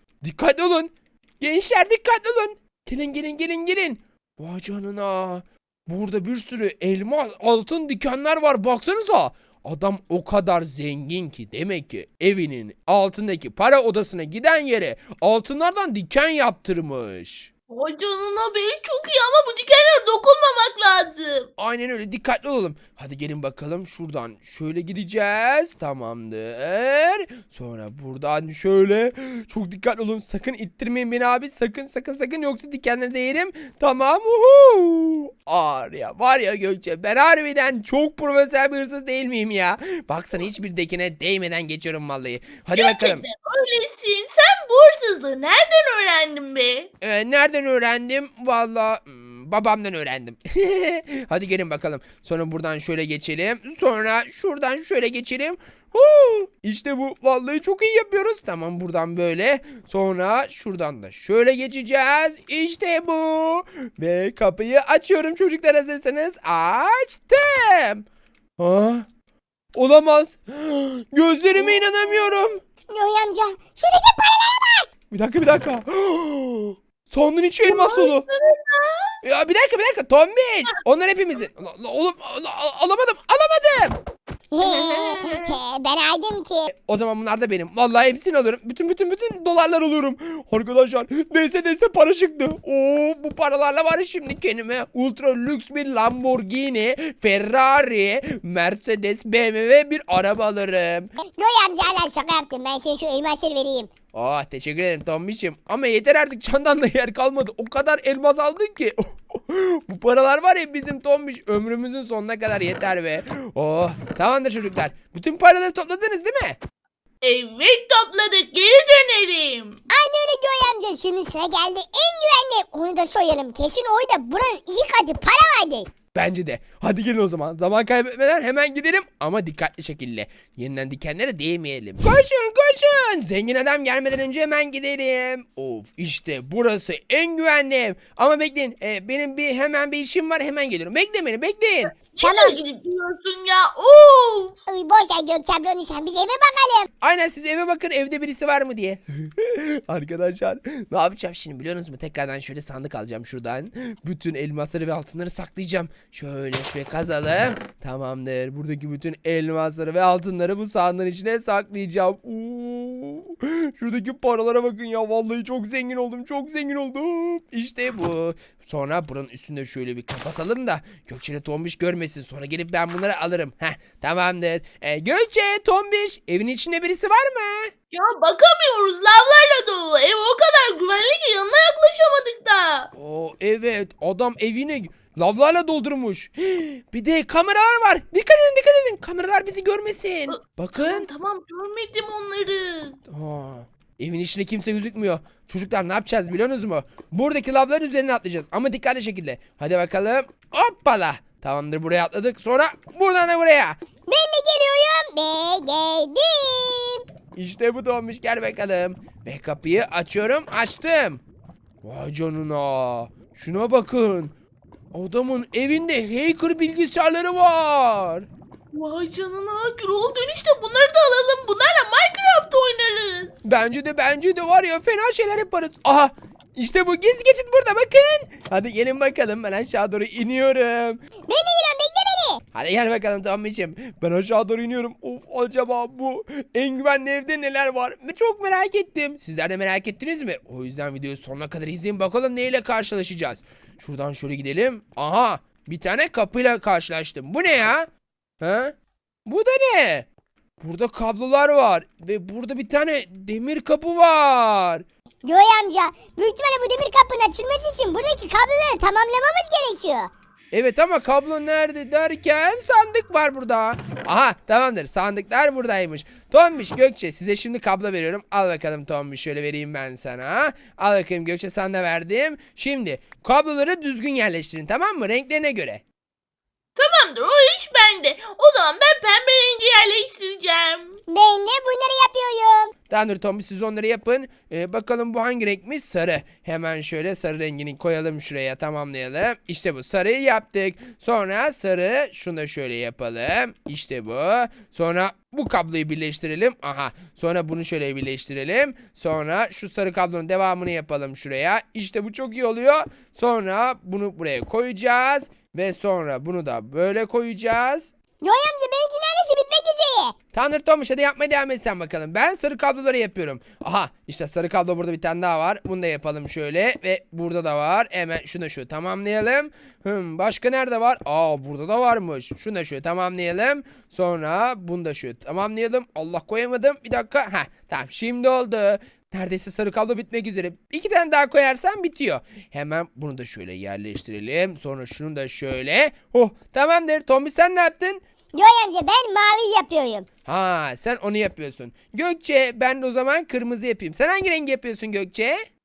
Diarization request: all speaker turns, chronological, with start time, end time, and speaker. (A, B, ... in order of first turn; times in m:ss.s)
0:00.2-0:17.5 A
0:17.7-0:21.5 B
0:21.6-0:43.2 A
0:42.7-0:46.9 B
0:47.0-1:08.0 A
1:08.6-1:09.1 A
1:09.8-1:12.6 A
1:12.9-1:14.9 C
1:15.1-1:18.2 A
1:17.7-1:19.1 B
1:19.2-1:24.0 A
1:24.5-1:26.7 C
1:24.6-1:25.6 B
1:26.7-1:41.1 A
1:41.2-1:43.9 C
1:44.1-1:56.6 A
1:57.2-1:59.8 B
1:59.9-2:05.9 C
2:06.1-2:22.0 A
2:22.1-2:24.6 B
2:22.2-2:22.6 C
2:24.7-2:26.9 C
2:27.0-2:57.7 A
2:57.9-3:02.9 B
3:02.9-3:11.1 A
3:10.3-3:13.0 B
3:13.1-3:23.8 A
3:24.1-3:27.0 C
3:27.4-3:31.2 A
3:31.8-3:34.4 A
3:34.9-3:38.3 A
3:38.7-3:43.4 B
3:43.4-3:51.0 A
3:51.3-3:52.4 C
3:52.5-4:07.9 A
4:08.4-4:08.7 A
4:09.3-4:10.1 A
4:10.6-4:14.8 A
4:15.2-4:20.1 C
4:20.5-4:35.8 A
4:36.8-4:41.0 B
4:41.1-4:42.7 C
4:42.9-5:07.9 A
5:08.2-5:10.2 C
5:10.3-5:38.0 A
5:38.3-5:40.1 C
5:40.3-5:45.5 A